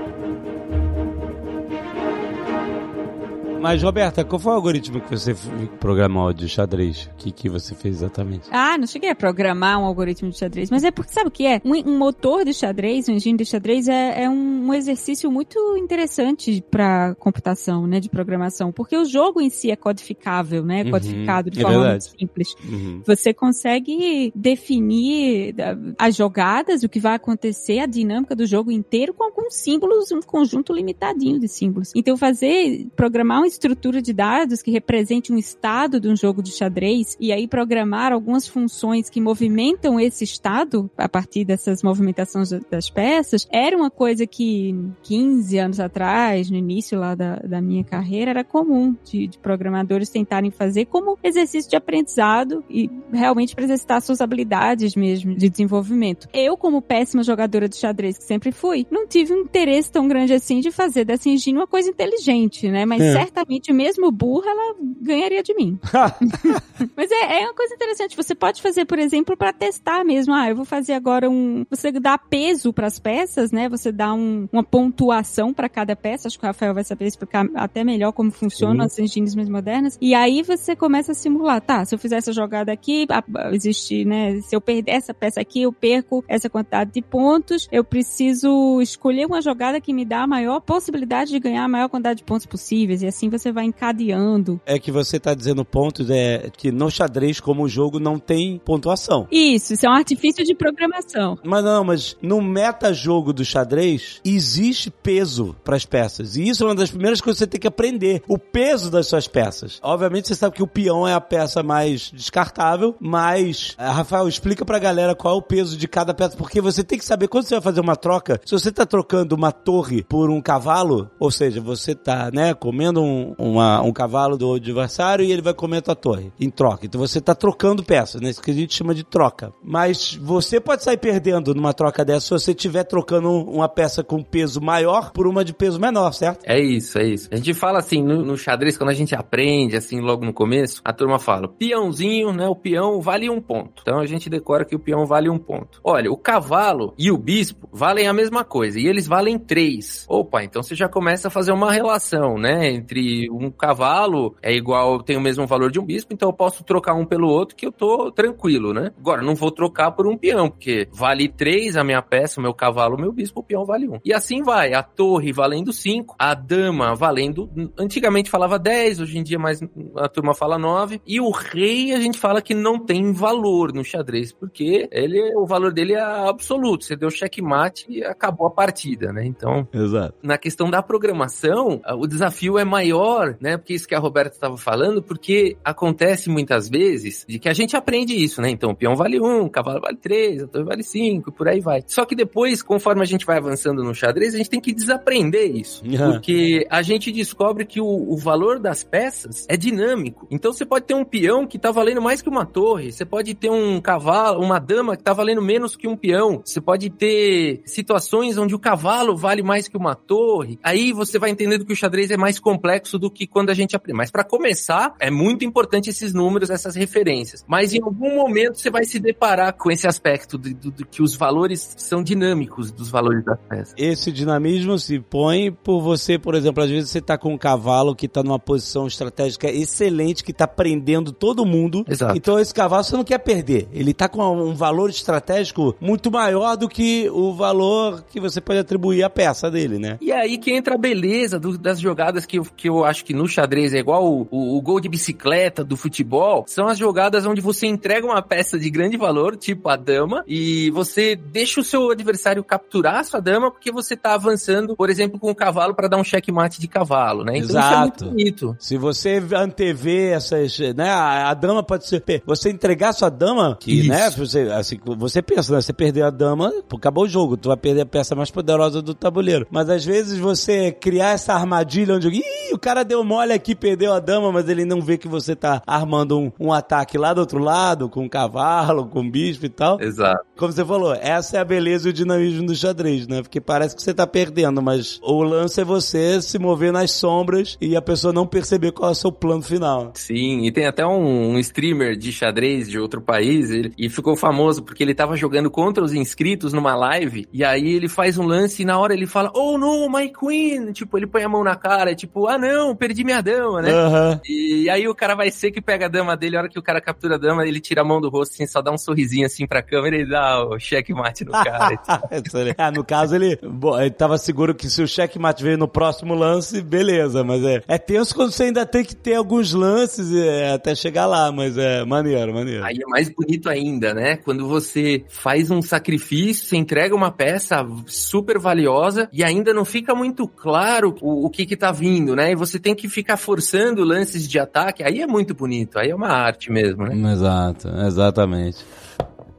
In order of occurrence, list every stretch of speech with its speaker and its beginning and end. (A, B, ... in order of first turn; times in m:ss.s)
0:03.6-0:08.5 A
0:08.5-1:34.6 B
0:20.8-0:22.0 A
0:22.6-0:23.0 A
1:03.0-1:03.2 A
1:05.9-1:06.6 A
1:18.6-1:18.9 A
1:34.6-1:39.3 A
1:39.3-1:41.4 B
1:41.4-2:16.4 A
2:16.4-2:59.7 C
2:59.7-3:00.1 A
3:00.2-3:43.7 C
3:15.8-3:16.2 A
3:43.8-4:00.0 A
3:51.9-3:52.3 C
4:00.0-4:18.6 C
4:17.4-4:39.8 A
4:23.7-4:24.1 C
4:39.8-4:40.2 C
4:40.4-4:49.9 A
4:50.0-5:12.0 C
5:03.6-5:04.2 A
5:11.4-5:22.7 A
5:22.6-5:37.0 C
5:36.9-5:38.6 A